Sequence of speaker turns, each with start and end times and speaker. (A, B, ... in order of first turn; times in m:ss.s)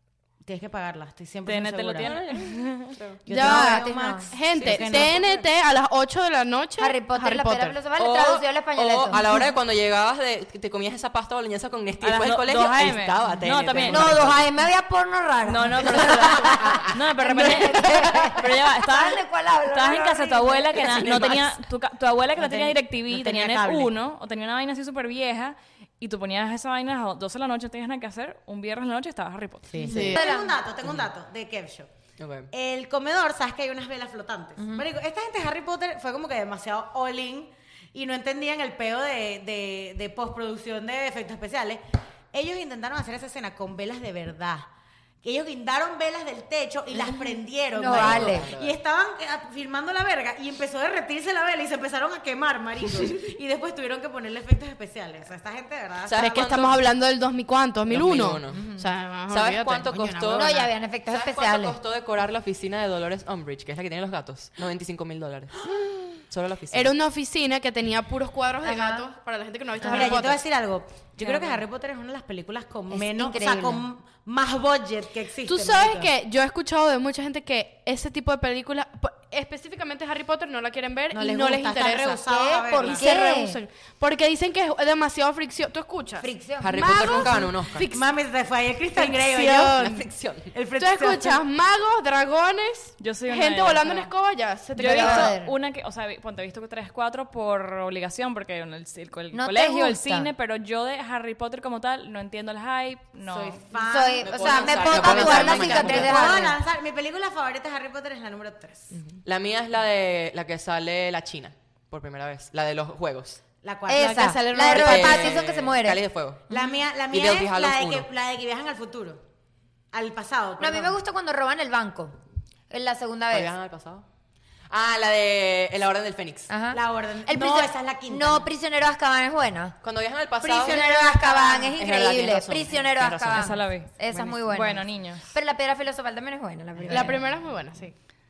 0:00.4-0:02.2 A
0:01.4-0:03.0 B
0:02.0-0:03.2 C
0:03.2-0:05.2 A
0:03.2-0:07.8 D
0:03.3-0:04.3 E
0:04.5-0:05.4 C
0:06.8-0:09.2 E
0:08.0-0:14.4 C
0:12.0-0:14.2 B
0:13.9-0:16.9 A
0:13.9-0:21.3 E
0:15.4-0:29.8 B
0:17.4-0:18.3 A
0:21.0-0:21.5 A
0:22.4-0:23.9 A
0:29.7-0:31.9 A
0:29.8-0:30.6 E
0:29.8-0:30.2 D
0:32.2-0:32.5 C
0:32.5-0:41.8 A
0:34.6-0:34.8 E
0:42.3-0:44.7 A
0:45.2-0:56.8 A
0:47.0-0:48.5 E
0:47.8-0:48.8 C
0:56.0-0:56.6 C
0:56.2-0:59.9 D
0:57.9-0:58.7 C
0:59.3-1:05.7 C
0:59.8-1:00.7 A
1:00.3-1:01.8 E
1:06.3-1:06.9 C
1:06.7-1:10.4 D
1:08.6-1:09.1 E
1:09.8-1:10.2 E
1:09.8-1:16.1 A
1:11.2-1:11.5 E
1:12.9-1:13.8 E
1:15.4-1:26.3 D
1:21.1-1:23.1 A
1:22.2-1:23.6 E
1:26.2-1:27.3 E
1:26.6-1:27.9 C
1:26.7-1:31.4 A
1:27.7-1:28.0 D
1:29.0-1:30.5 C
1:29.2-1:29.7 D
1:30.8-1:35.3 D
1:33.0-1:34.1 B
1:34.8-1:43.6 B
1:34.8-1:35.5 E
1:39.3-1:40.3 E
1:43.2-1:48.9 A
1:43.7-1:46.6 E
1:44.2-1:46.4 C
1:45.0-1:46.1 D
1:49.2-1:53.4 C
1:53.6-1:54.4 A
1:53.9-1:56.8 E
1:53.9-1:55.4 D
1:54.6-1:56.4 C
1:56.5-1:59.2 A
1:57.1-1:58.0 C
1:59.9-2:01.0 A
2:00.6-2:02.2 E
2:02.7-2:03.5 E
2:03.3-2:04.0 C
2:04.7-2:06.5 C
2:06.5-2:09.8 E
2:06.7-2:08.5 A
2:09.8-2:10.8 C
2:10.4-2:11.8 A
2:10.5-2:17.2 E
2:11.8-2:13.7 C
2:13.3-2:13.9 B
2:14.1-2:14.4 A
2:14.4-2:15.3 B
2:16.8-2:17.2 A
2:16.9-2:17.9 D